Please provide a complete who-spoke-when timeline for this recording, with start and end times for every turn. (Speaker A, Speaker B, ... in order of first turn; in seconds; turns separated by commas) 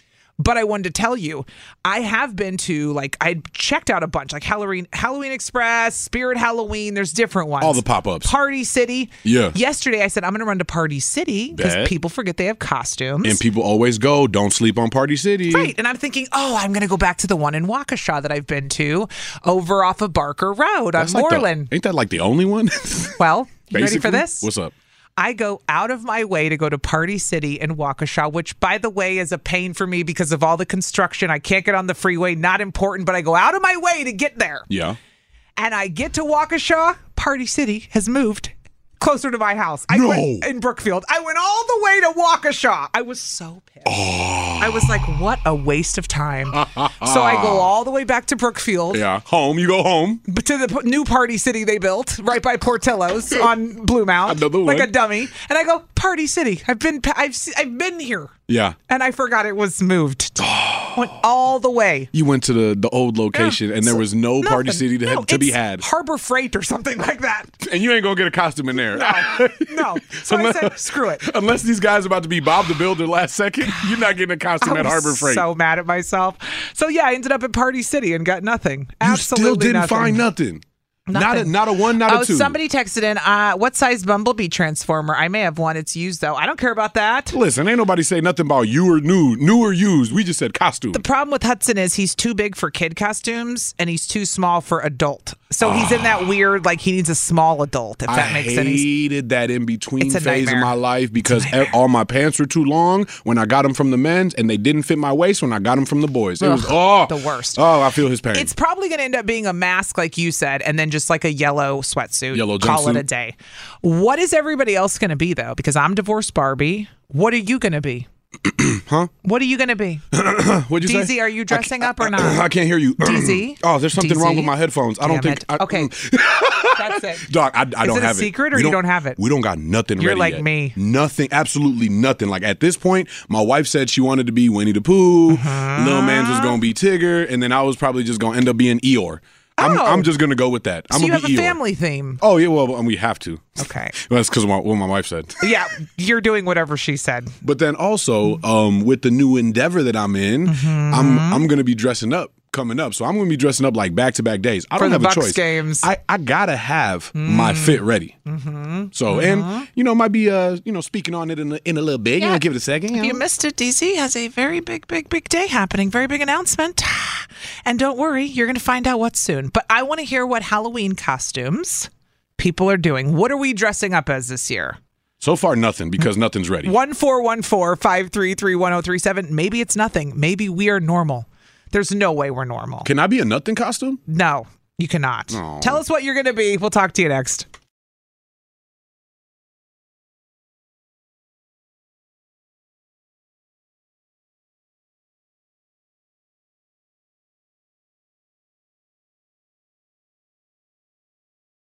Speaker A: 0.4-13.4, Speaker B: 7.6-8.3, Speaker B: 9.2-9.6, Speaker B: 11.5-11.9, Speaker B: 13.2-15.7, Speaker A: 15.5-21.7, Speaker B: 21.0-23.2, Speaker A: 23.2-24.5, Speaker B: 23.7-24.7, Speaker A: 25.2-34.7, Speaker B: 34.7-35.0, Speaker A: 35.6-44.0, Speaker B: 39.9-40.5, Speaker B: 43.9-44.9, Speaker A: 44.6-49.0, Speaker B: 46.5-47.7, Speaker B: 48.9-50.2, Speaker A: 50.3-58.3, Speaker B: 54.2-54.9, Speaker B: 58.5-58.8, Speaker A: 58.9-62.1, Speaker B: 60.4-61.1, Speaker B: 62.1-65.8, Speaker A: 63.3-67.5, Speaker B: 67.6-75.4, Speaker A: 68.9-71.3, Speaker A: 73.6-74.0, Speaker A: 74.6-80.2, Speaker B: 79.0-80.6, Speaker A: 81.1-87.4, Speaker B: 81.1-82.6, Speaker B: 87.3-91.0, Speaker A: 90.9-98.8, Speaker B: 95.6-96.1, Speaker B: 98.1-108.5, Speaker A: 100.0-101.7, Speaker A: 106.4-107.6, Speaker A: 108.3-118.1, Speaker B: 112.3-113.0, Speaker B: 118.4-119.1, Speaker A: 119.2-120.0, Speaker B: 120.1-141.6, Speaker A: 120.8-122.4, Speaker A: 123.0-125.9, Speaker A: 126.7-127.3, Speaker A: 127.8-129.2, Speaker A: 130.0-130.7, Speaker A: 135.3-136.6, Speaker A: 139.6-140.1, Speaker A: 140.9-142.2, Speaker B: 142.2-145.3, Speaker A: 143.6-143.9, Speaker A: 145.4-147.3, Speaker B: 147.4-158.1, Speaker A: 150.4-151.4, Speaker A: 154.8-155.9, Speaker A: 157.1-159.7, Speaker B: 158.9-163.2, Speaker A: 162.2-174.8, Speaker B: 175.2-176.7, Speaker A: 176.6-182.9, Speaker B: 182.8-184.0, Speaker A: 184.1-187.5, Speaker B: 185.3-185.8